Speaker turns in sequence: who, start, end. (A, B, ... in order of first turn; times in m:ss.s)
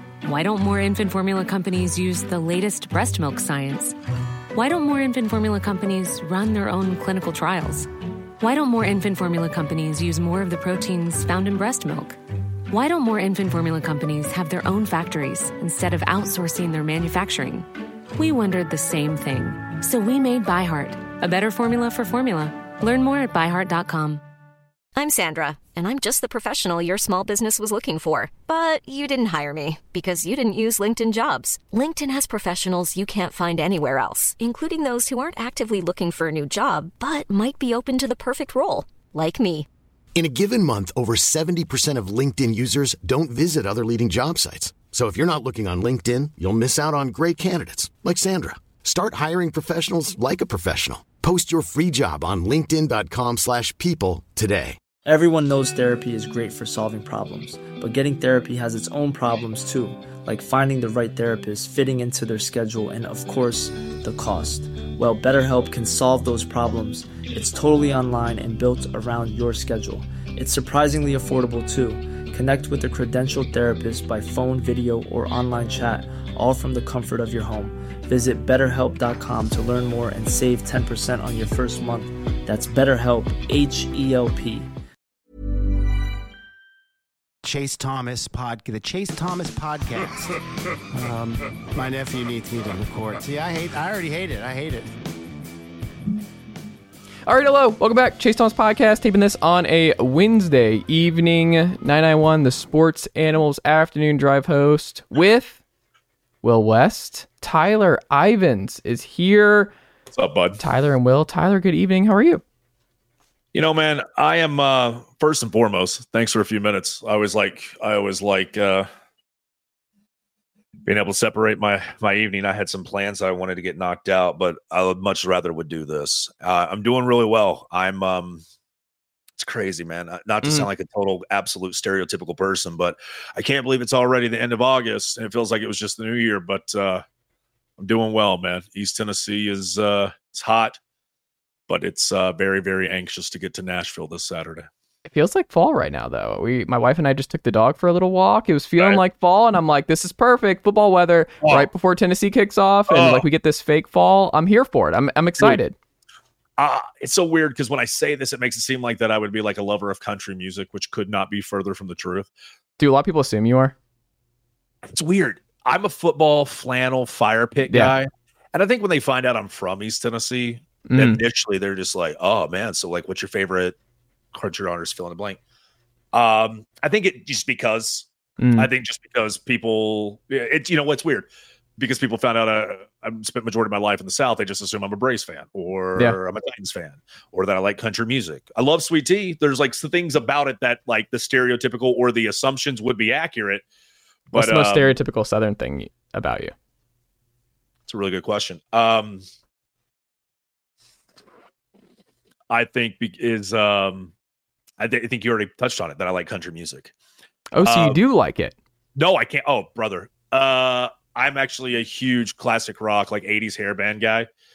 0:00.2-0:04.0 A
0:04.5-0:12.2 A
0:12.7-0:24.2 A
0:25.0-0:39.7 B
0:40.1-0:54.8 C
0:55.0-1:24.7 D
1:27.4-1:30.4 E
1:30.9-1:35.0 E
1:37.3-1:45.6 F
1:46.4-1:49.7 F
1:50.1-1:50.6 G
1:50.6-1:52.4 F
1:53.5-1:58.9 G
2:00.8-2:08.4 G
2:09.4-2:17.0 G
2:17.8-2:20.8 G
2:21.7-2:24.7 G
2:25.0-2:35.7 F
2:31.4-2:31.7 G
2:32.9-2:33.2 G
2:36.6-2:42.3 G
2:42.8-2:43.7 F
2:44.8-2:53.8 G
2:47.7-2:47.9 F
2:50.9-2:51.2 F
2:54.3-2:55.4 G
2:56.1-3:13.6 G
2:58.4-2:58.7 F
3:14.3-3:14.9 G
3:14.3-3:16.5 F
3:17.9-3:19.2 G
3:22.5-3:24.1 G
3:24.8-3:26.9 G
3:27.5-3:28.5 F
3:27.6-3:28.0 G
3:29.0-3:34.3 G